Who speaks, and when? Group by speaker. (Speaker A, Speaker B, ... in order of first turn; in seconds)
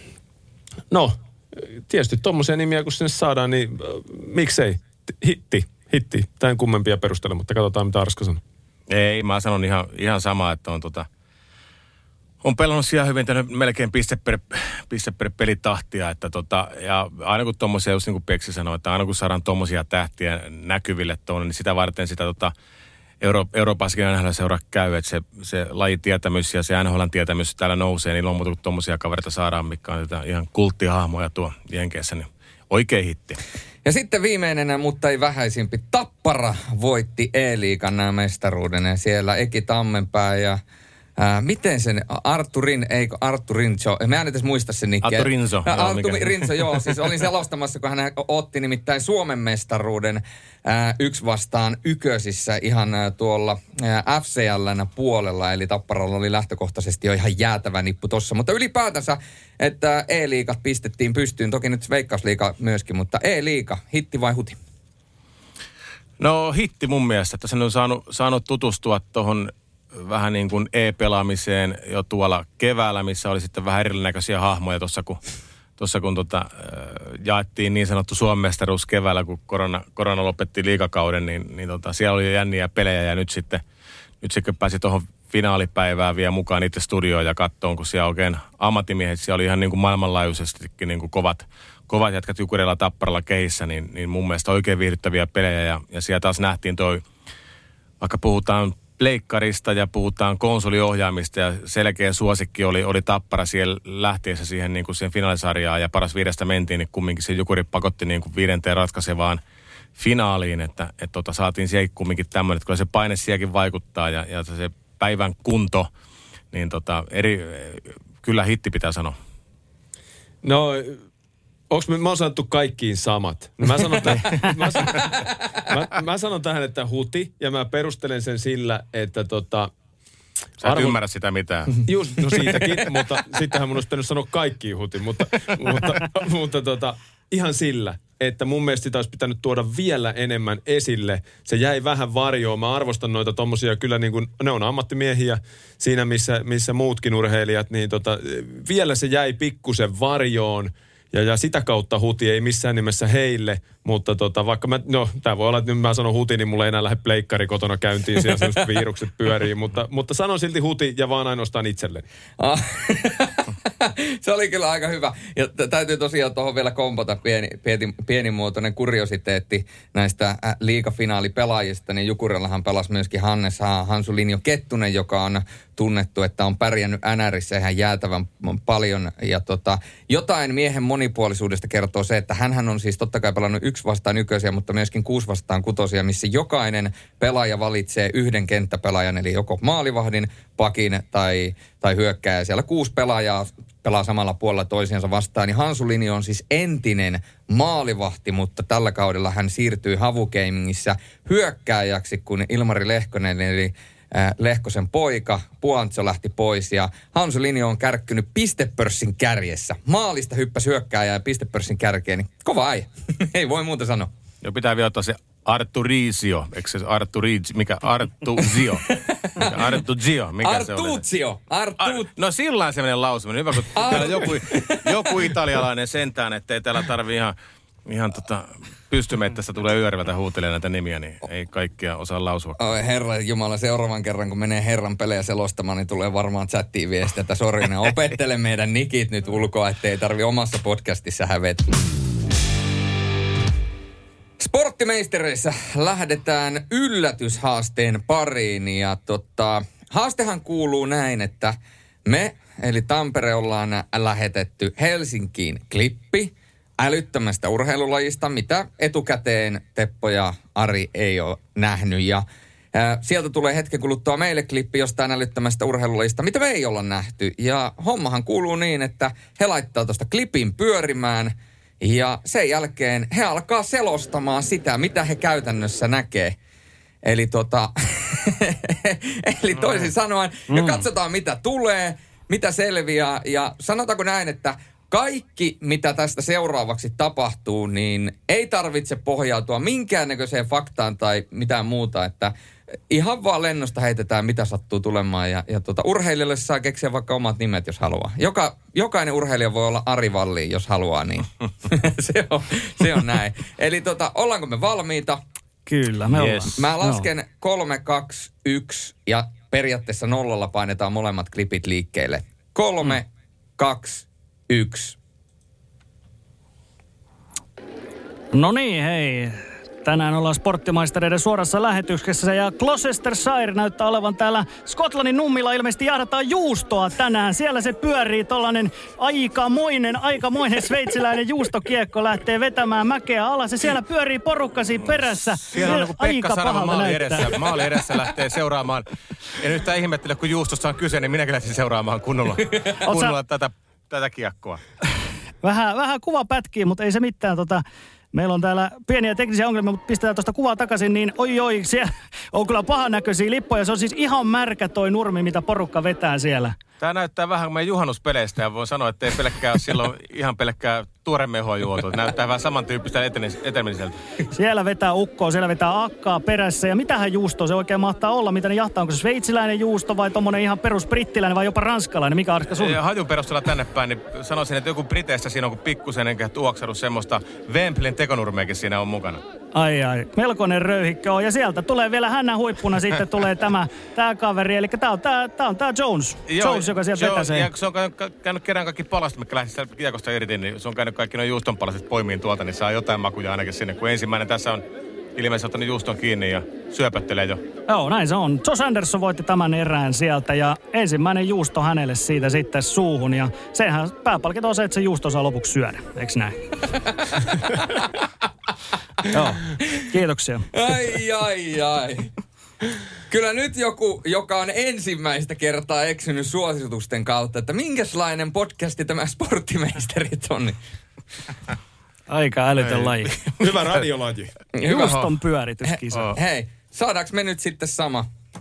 Speaker A: 0.9-8.4, 120.4-121.0, 121.7-129.7, 130.6-131.0, 131.8-162.0, 423.4-424.3
Speaker B: 8.9-11.1, 12.4-22.5, 23.2-33.4, 45.0-46.9, 66.2-75.2, 75.8-83.6, 84.2-97.0, 98.0-109.4, 110.0-115.9, 116.5-119.2, 124.1-125.1, 130.6-131.8, 214.4-221.0, 221.8-227.3, 227.8-232.6, 306.1-306.6, 335.5-344.6, 356.8-364.0, 372.5-379.2, 386.3-394.6, 395.1-397.4, 422.6-423.7, 424.8-425.0
Speaker C: 33.8-40.6, 41.2-64.5, 162.4-214.1, 218.8-219.6, 220.4-222.1, 223.7-225.1, 232.6-241.7, 244.4-276.4, 277.0-292.3, 292.9-305.2, 306.6-314.9, 407.3-407.9, 410.5-412.1, 413.1-420.6, 424.5-425.0, 425.7-428.1
Speaker D: 280.5-280.8, 305.6-307.1, 318.3-337.4, 342.8-343.1, 345.4-356.6, 364.3-372.8, 379.5-387.5, 397.7-406.6, 409.1-410.5, 422.1-423.1, 424.6-426.2